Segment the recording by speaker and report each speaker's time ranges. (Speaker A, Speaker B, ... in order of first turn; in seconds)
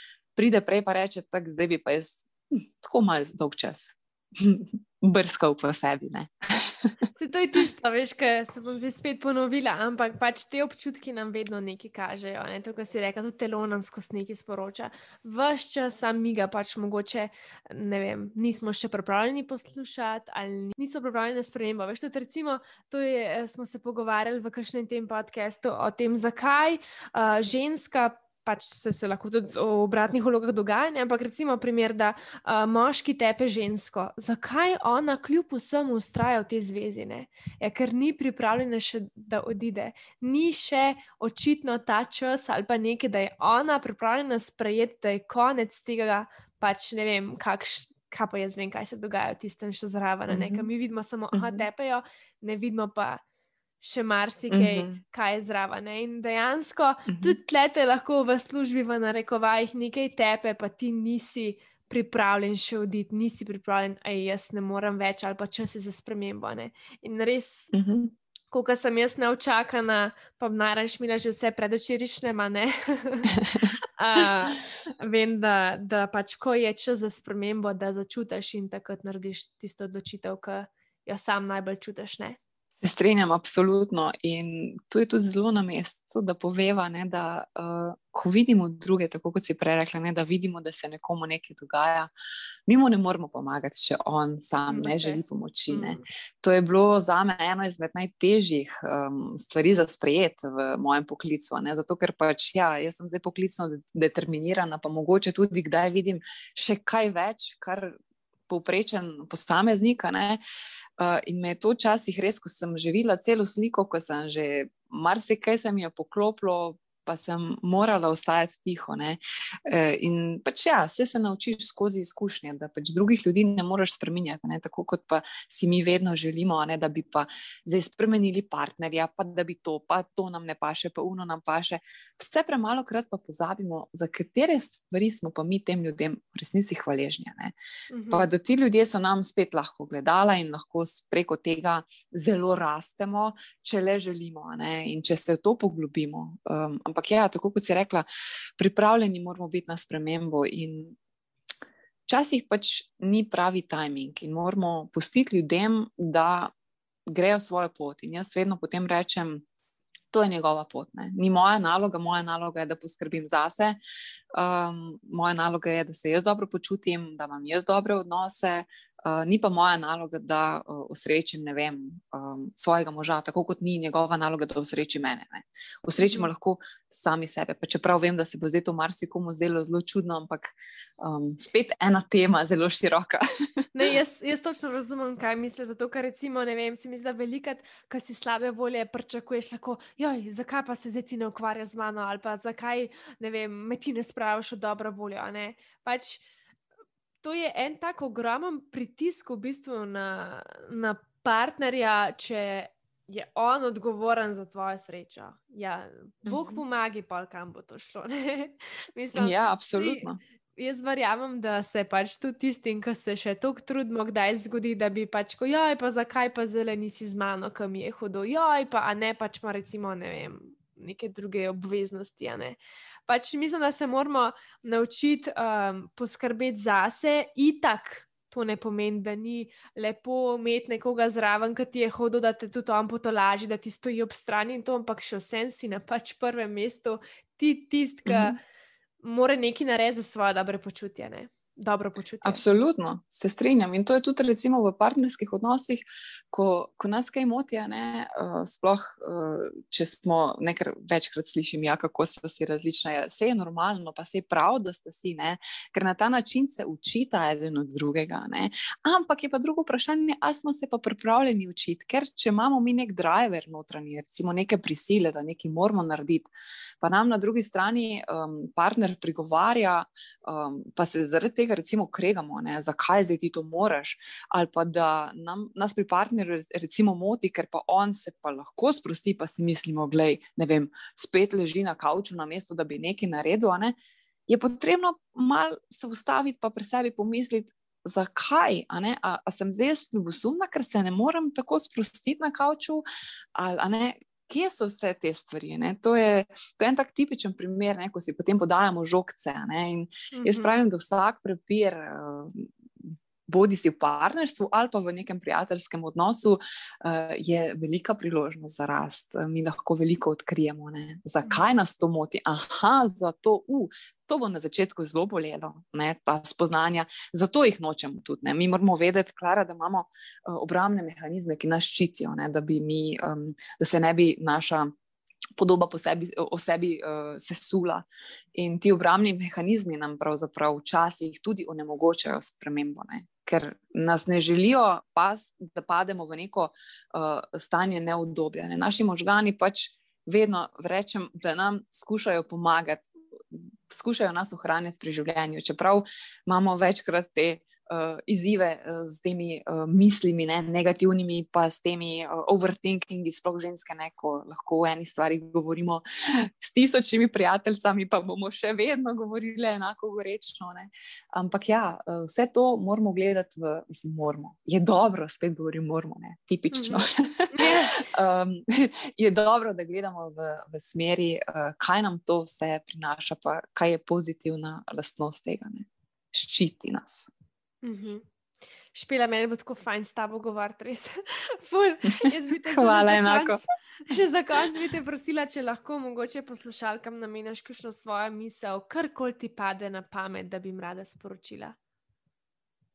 Speaker A: 0.4-6.9, 50.3-50.7, 51.3-51.7, 54.5-55.0, 57.1-57.4, 67.7-68.2, 82.8-92.1, 92.7-108.0, 108.5-110.4, 111.0-137.5, 138.1-148.1, 148.6-150.9, 152.1-156.5, 157.1-159.4, 160.1-163.8, 164.3-183.2, 206.3-206.6, 209.2-210.2, 238.1-238.4, 242.2-266.3, 266.8-283.7, 284.3-324.7, 325.4-377.1, 382.0-383.4
Speaker B: 7.2-53.2, 53.8-67.7, 68.5-82.4, 94.7-96.0, 137.9-138.3, 176.0-176.3, 183.7-196.3, 197.2-210.1, 210.6-238.4, 239.0-242.4, 300.1-300.6, 366.5-367.8, 377.6-378.1, 378.7-391.6